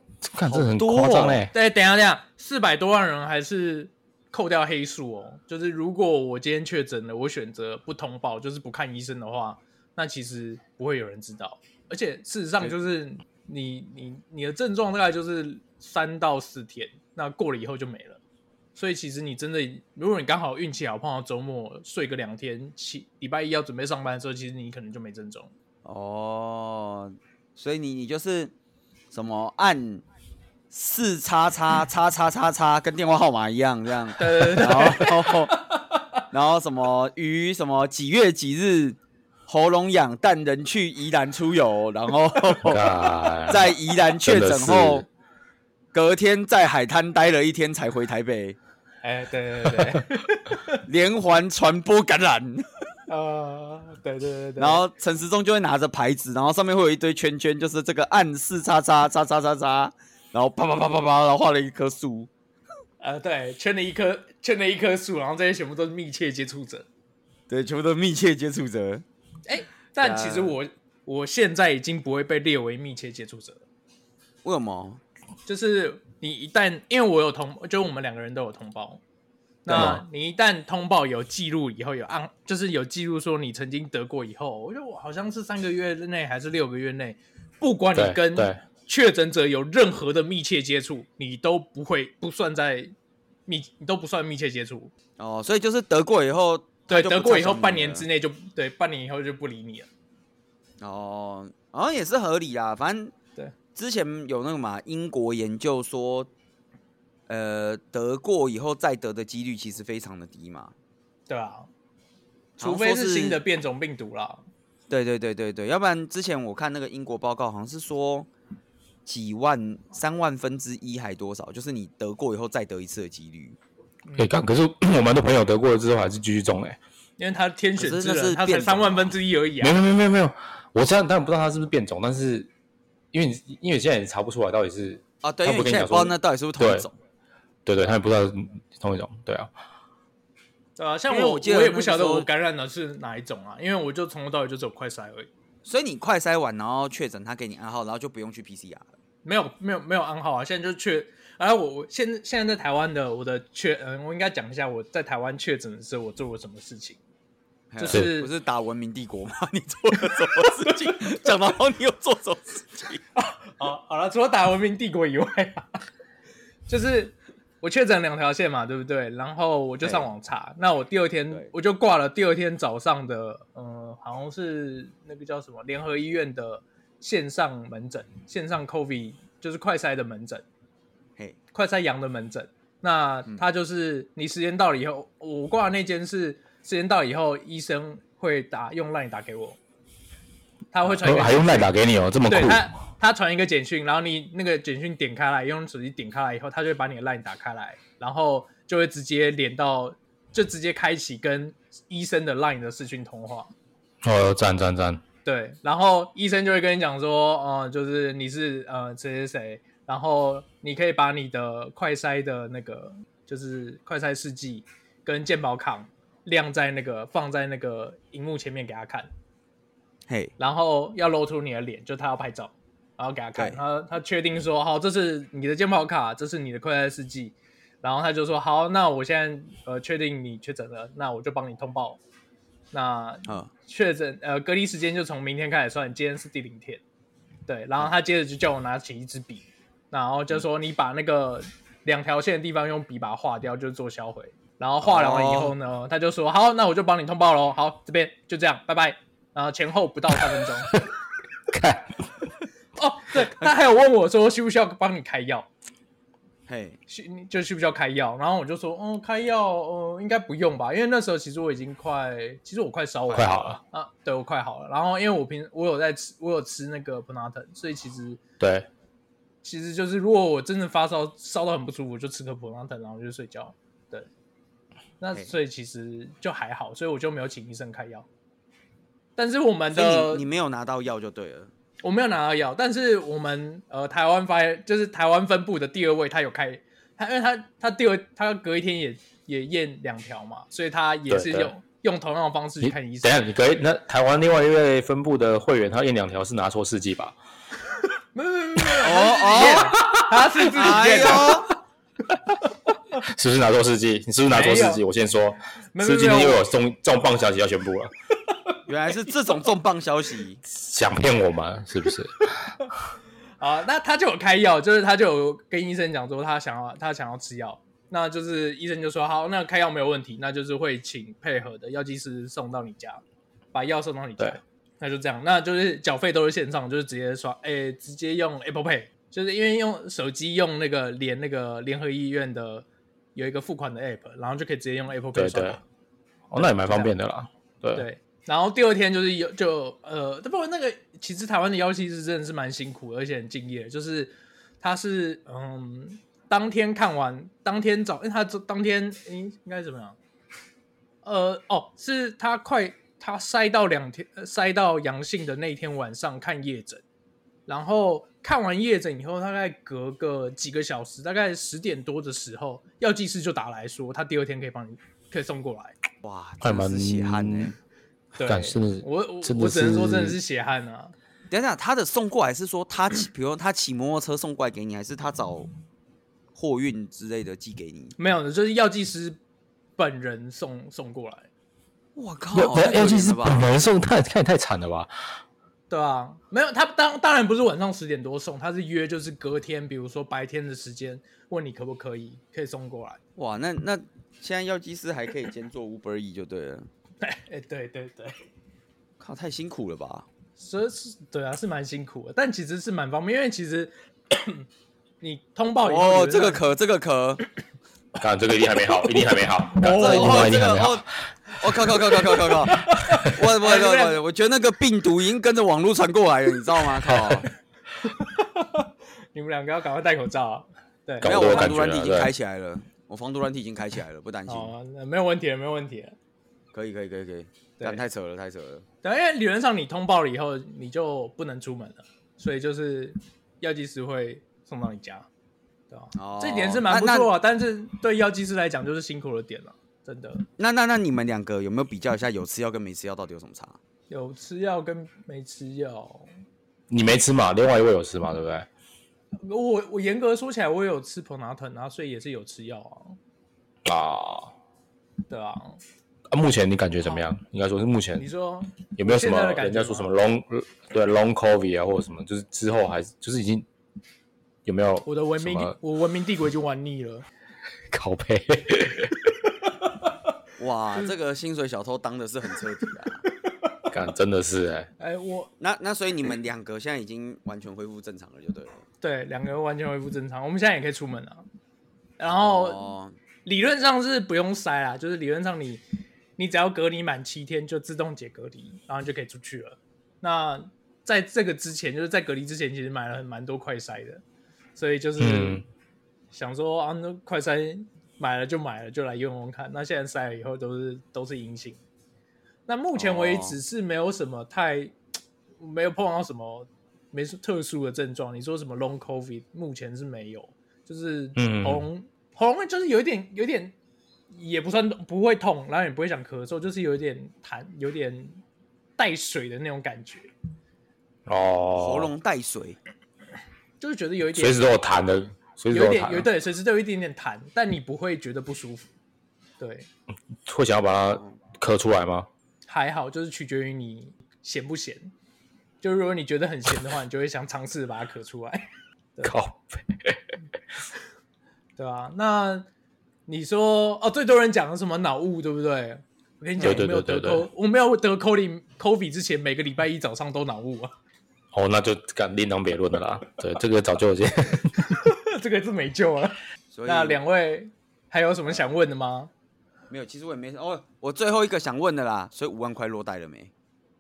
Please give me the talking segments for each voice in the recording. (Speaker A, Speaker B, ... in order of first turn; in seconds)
Speaker A: 0.2-1.5, 42.6-45.1, 79.7-80.0, 88.0-88.6, 124.2-126.8, 129.6-132.5, 133.1-136.9, 137.7-139.5, 191.0-192.7, 204.0-205.0, 250.3-250.9, 251.5-252.1, 263.1-263.6, 268.4-268.7, 291.1-291.5, 292.6-297.2, 299.5-300.2, 303.1-307.9, 310.5-312.6, 335.1-335.6, 336.3-337.9, 366.4-367.6, 368.2-370.2, 382.3-384.9, 408.0-410.9, 421.0-422.1, 446.7-448.5, 453.6-454.4, 456.1-458.1, 458.8-463.5, 464.4-465.6, 467.7-469.1, 473.7-474.7, 495.0-495.4, 511.2-511.6, 521.1-521.9, 524.1-526.1, 530.3-532.1, 539.0-540.0, 546.4-547.3, 551.3-554.6
Speaker B: 0.5-1.5, 25.9-28.5, 29.1-30.0, 30.7-35.6, 36.3-42.9, 43.5-45.1, 45.9-48.6, 50.9-52.7, 54.6-62.3, 67.5-69.0, 70.0-70.6, 74.4-75.0, 95.2-98.1, 100.8-103.1, 103.8-106.3, 107.3-110.7, 112.6-113.4, 114.9-118.3, 119.1-123.6, 127.8-129.1, 135.2-136.9, 141.1-142.3, 145.7-148.9, 157.7-163.0, 169.8-170.1, 220.1-220.3, 244.8-245.5, 256.5-256.8, 279.7-281.5, 298.8-299.8, 300.4-301.5, 308.7-310.4, 366.0-367.6, 371.3-375.5, 376.3-377.9, 382.0-383.4, 393.2-396.7, 399.0-400.1, 405.6-407.2, 409.6-410.9, 411.4-417.3, 421.0-424.5, 426.5-428.6, 435.9-437.1, 440.4-443.6, 470.4-473.1, 475.4-478.6, 482.1-483.0, 502.8-503.4, 521.6-522.6, 556.5-557.0, 559.7-563.3
Speaker C: 1.5-18.2, 18.8-25.5, 34.2-36.2, 49.0-50.8, 53.1-54.8, 63.0-66.9, 69.5-73.6, 75.5-79.0, 79.7-92.9, 93.5-94.9, 96.9-99.9, 111.3-111.7, 112.6-114.4, 127.2-129.8, 140.8-145.3, 149.2-157.0, 157.8-158.3, 163.2-165.7, 166.7-180.4, 181.5-189.6, 190.7-191.7, 192.2-203.5, 205.2-219.1, 220.4-232.0, 232.7-236.8, 237.5-250.7, 252.8-255.5, 256.9-268.2, 269.4-274.1, 275.0-278.1, 279.2-280.2, 281.8-293.2, 298.1-301.5, 304.3-304.8, 305.8-306.4, 313.4-323.0, 323.5-335.6, 336.4-336.9, 337.7-350.0, 351.0-356.8, 357.5-365.8, 368.2-370.9, 378.0-379.2, 379.8-381.3, 385.7-393.0, 397.0-398.2, 400.4-404.5, 405.0-406.4, 409.6-410.3, 412.4-414.0, 417.8-421.5, 424.3-426.0, 428.8-435.1, 435.7-440.3, 443.9-446.1, 449.2-453.0, 455.1-455.6, 458.0-459.9, 464.9-467.1, 474.8-475.3, 478.8-481.2, 482.0-482.7, 483.2-485.6, 486.2-494.0, 494.6-495.4, 496.1-501.6, 502.5-504.8, 505.4-513.5, 514.1-518.2, 518.8-520.1, 523.6-524.5, 525.5-528.7, 529.4-529.7, 532.5-534.9, 535.6-539.1, 541.6-542.5, 543.1-550.7, 554.5-559.1